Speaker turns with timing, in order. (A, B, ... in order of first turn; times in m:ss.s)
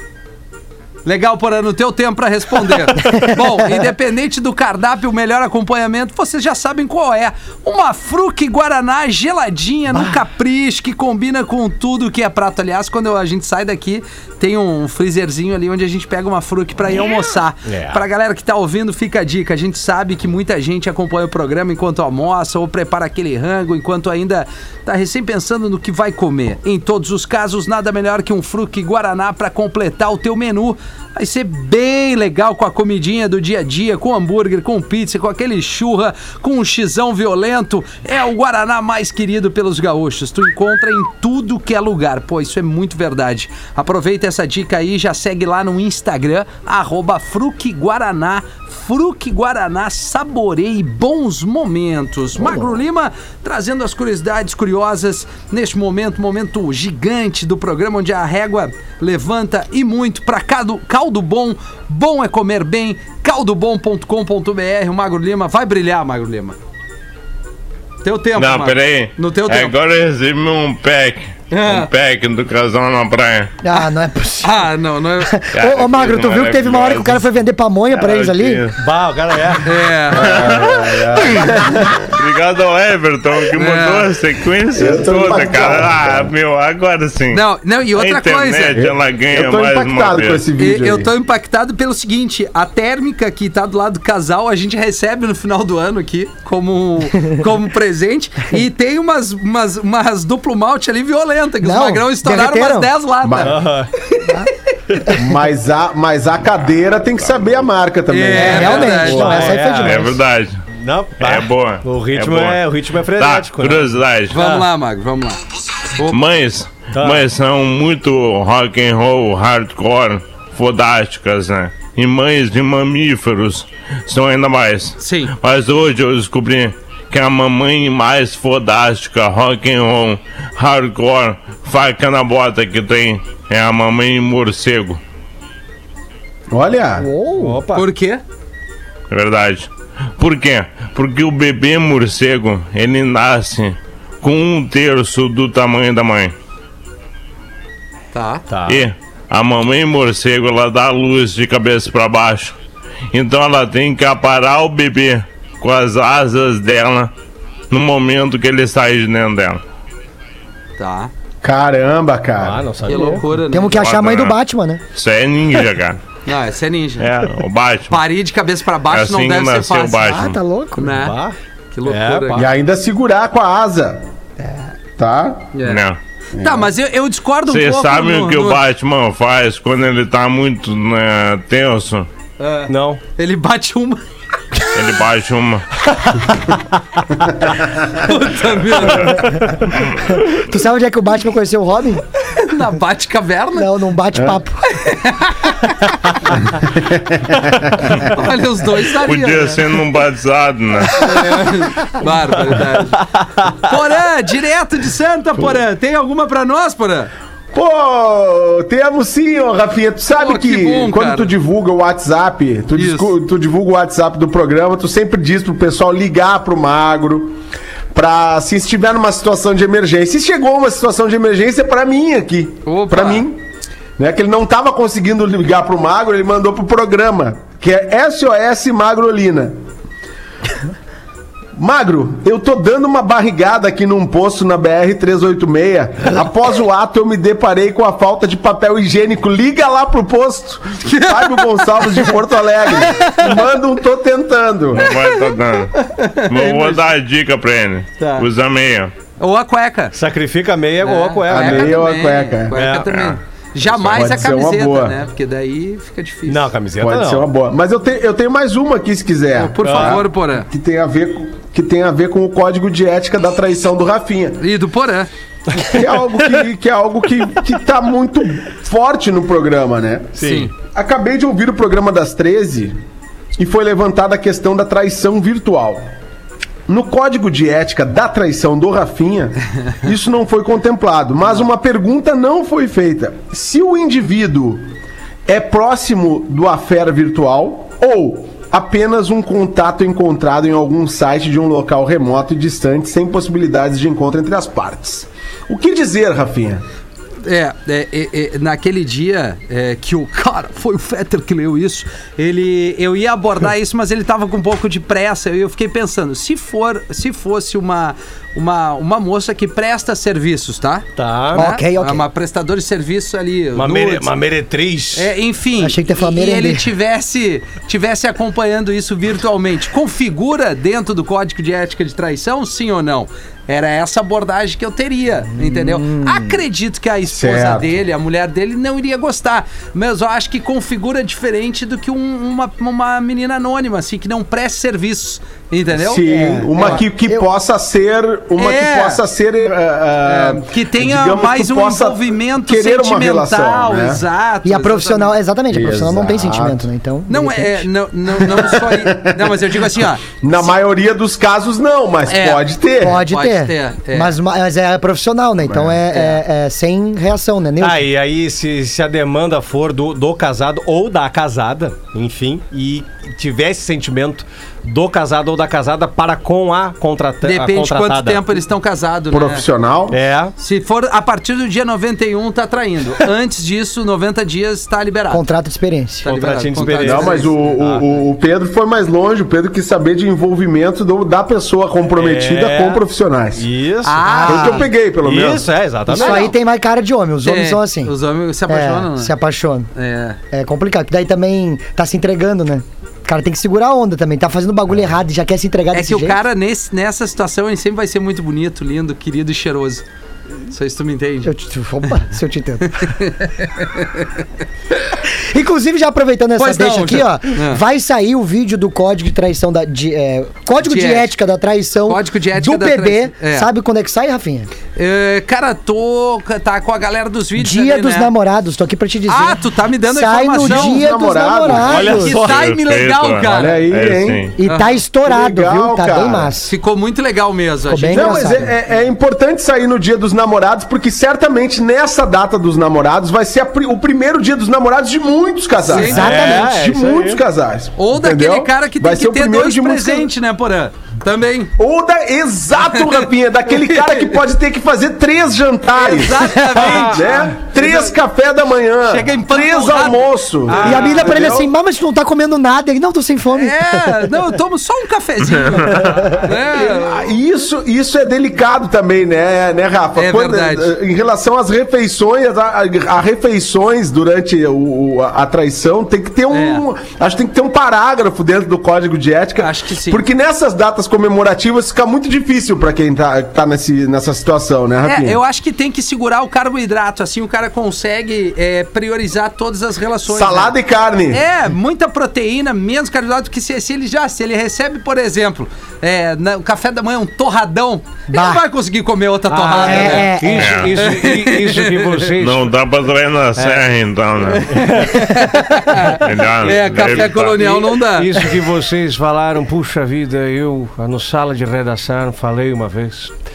0:01.0-1:06.6 A
0:03.1-0:03.3 B
0:17.7-0:18.0 C
1:08.0-1:09.8 A
1:08.4-1:13.5 D
1:11.5-1:11.9 A
1:13.6-1:14.6 B
1:14.4-1:15.4 A
1:15.2-1:18.7 B
1:15.5-1:17.3 D
1:17.9-1:18.8 D
1:18.8-1:19.7 C
1:19.6-1:20.6 A
1:20.1-1:22.0 E
1:20.1-1:30.4 D
1:23.6-1:24.1 A
1:24.7-1:26.3 E
1:27.3-1:28.8 A
1:28.7-1:31.1 E
1:30.6-1:44.5 A
1:41.6-1:42.9 B
1:43.2-1:43.6 E
1:43.4-1:43.9 C
1:45.1-1:49.0 E
1:48.1-1:49.6 A
1:48.4-1:50.1 B
1:48.4-1:50.1 C
1:49.8-1:50.5 D
1:50.8-1:54.7 C
1:51.2-1:54.4 D
1:54.3-1:56.2 A
1:56.0-2:15.0 D
1:56.9-1:57.3 C
2:05.0-2:05.3 A
2:16.5-2:17.1 E
2:17.0-2:17.6 B
2:17.3-2:17.8 C
2:17.7-2:18.2 A
2:19.1-2:26.3 D
2:28.1-2:28.4 A
2:28.5-2:28.8 C
2:28.6-2:32.5 D
2:33.1-2:37.1 D
2:37.7-2:39.6 D
2:40.8-2:41.1 A
2:41.4-2:42.6 E
2:42.4-2:43.3 C
2:42.9-2:43.9 A
2:43.5-2:44.8 B
2:43.7-2:44.4 D
2:44.9-2:46.0 D
2:46.2-2:47.1 A
2:47.0-2:48.0 D
2:47.9-2:51.2 A
2:48.9-2:50.4 D
2:50.0-2:50.9 B
2:50.9-2:52.5 C
2:51.7-2:52.5 A
2:52.3-2:54.0 E
2:55.0-2:55.5 E
2:55.5-2:55.8 A
2:55.6-2:56.0 D
2:56.3-2:56.7 E
2:56.4-2:58.6 A
2:57.5-3:02.1 D
3:02.4-3:04.0 A
3:02.7-3:03.0 C
3:04.7-3:05.8 D
3:07.8-3:09.5 A
3:09.1-3:12.0 B
3:12.2-3:13.7 A
3:13.5-3:14.6 B
3:14.7-3:16.3 A
3:16.6-3:17.8 E
3:17.8-3:19.7 A
3:19.0-3:21.4 D
3:21.0-3:27.1 A
3:22.0-3:23.8 C
3:27.5-3:37.4 E
3:30.1-3:31.3 A
3:32.8-3:33.1 A
3:37.9-3:43.4 E
3:42.6-3:43.2 A
3:44.0-3:49.6 E
3:51.6-4:04.9 E
4:00.8-4:02.1 A
4:02.8-4:03.4 A
4:04.7-4:08.9 D
4:04.8-4:06.8 A
4:08.0-4:08.3 A
4:09.2-4:09.9 A
4:09.9-4:11.8 C
4:10.8-4:16.5 A
4:11.3-4:12.6 E
4:12.5-4:13.2 C
4:13.7-4:15.0 E
4:16.3-4:17.3 C
4:16.8-4:24.4 E
4:19.4-4:20.5 A
4:19.6-4:20.0 C
4:24.4-4:25.1 A
4:25.5-4:25.9 C
4:25.6-4:32.8 E
4:30.2-4:30.5 C
4:30.2-4:30.5 A
4:33.4-4:35.9 E
4:36.7-4:44.7 E
4:45.2-4:56.6 E
4:57.2-5:14.1 A
5:11.0-5:11.4 C
5:11.3-5:12.0 B
5:13.6-5:15.1 C
5:14.9-5:36.8 A
5:15.6-5:16.7 B
5:25.4-5:26.4 B
5:27.1-5:27.8 E
5:35.8-5:44.0 E
5:36.1-5:37.2 B
5:38.4-5:39.0 A
5:40.0-5:45.2 A
5:44.4-5:47.7 B
5:45.5-5:46.6 E
5:47.1-5:50.5 A
5:48.3-5:53.0 E
5:52.1-5:54.1 A
5:52.8-5:57.8 B
5:55.4-5:55.8 E
5:55.9-5:56.2 A
5:57.6-6:08.2 C
6:07.2-6:09.4 A
6:09.1-6:10.0 E
6:09.9-6:10.3 C
6:10.4-6:15.2 A
6:15.1-6:16.1 B
6:16.0-6:17.3 A
6:16.0-6:17.8 C
6:16.8-6:23.5 E
6:21.9-6:22.8 C
6:23.4-6:24.3 C
6:23.8-6:24.7 A
6:24.1-6:24.6 B
6:24.1-6:25.5 E
6:24.9-6:26.3 C
6:25.9-6:26.3 A
6:25.9-6:27.9 B
6:27.2-6:29.1 A
6:28.5-6:29.7 B
6:29.7-6:30.2 A
6:30.3-6:36.2 B
6:35.7-6:39.8 A
6:40.4-6:41.3 A
6:41.2-6:43.0 B
6:42.6-6:44.2 A
6:45.1-6:54.5 B
6:46.4-6:47.6 A
6:50.6-6:51.1 A
6:51.8-6:53.5 A
6:54.7-6:58.1 A
6:57.4-7:02.2 B
6:59.1-7:00.8 A
7:00.4-7:01.9 E
7:01.5-7:02.4 C
7:01.7-7:03.7 A
7:02.2-7:04.3 D
7:03.2-7:04.3 E
7:04.4-7:06.5 B
7:04.4-7:04.8 A
7:05.0-7:06.3 E
7:06.4-7:08.5 A
7:07.7-7:08.4 B
7:07.9-7:20.1 E
7:15.6-7:16.1 A
7:15.7-7:16.5 B
7:15.8-7:17.2 C
7:17.8-7:21.5 A
7:21.6-7:31.5 E
7:22.6-7:24.1 A
7:25.7-7:27.9 A
7:26.5-7:27.2 C
7:28.8-7:30.9 A
7:30.5-7:31.3 C
7:30.6-7:34.1 B
7:33.3-7:37.1 A
7:35.9-7:36.2 B
7:36.5-7:55.2 E
7:40.0-7:40.7 A
7:46.3-7:46.6 A
7:49.4-7:50.1 A
7:54.8-8:00.6 A
8:00.1-8:01.2 E
8:01.1-8:12.1 A
8:08.1-8:08.4 B
8:09.3-8:12.5 C
8:09.5-8:10.7 B
8:10.3-8:10.8 D
8:12.2-8:14.5 D
8:13.4-8:13.7 C
8:14.4-8:18.4 A
8:14.4-8:15.0 C
8:16.0-8:17.6 D
8:16.8-8:23.1 C